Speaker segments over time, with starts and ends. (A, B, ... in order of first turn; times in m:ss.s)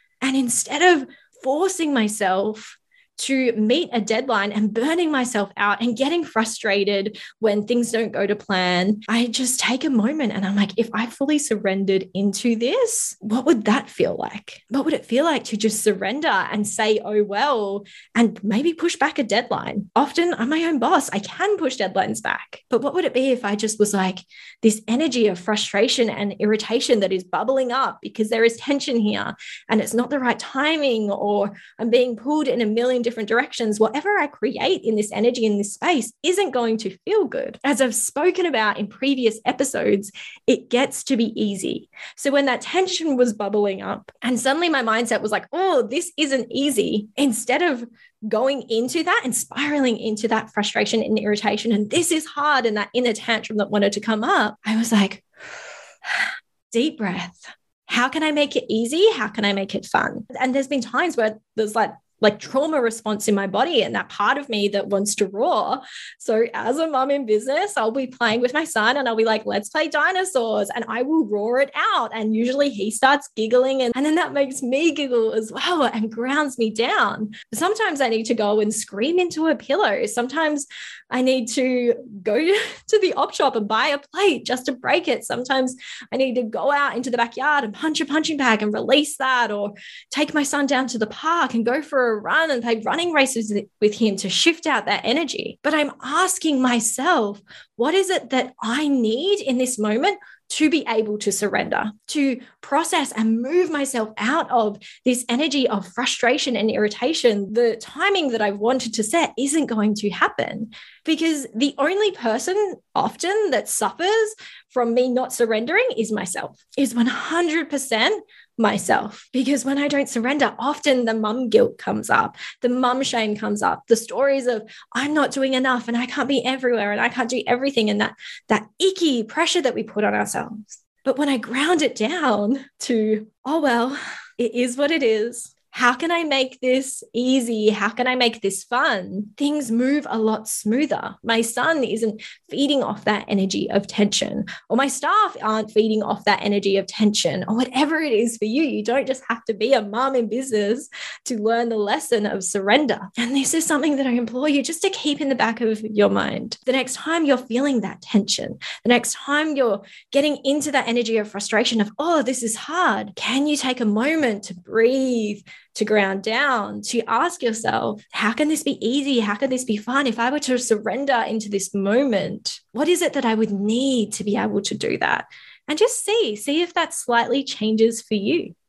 0:00.2-0:55.2 A
0:56.0-2:58.5 A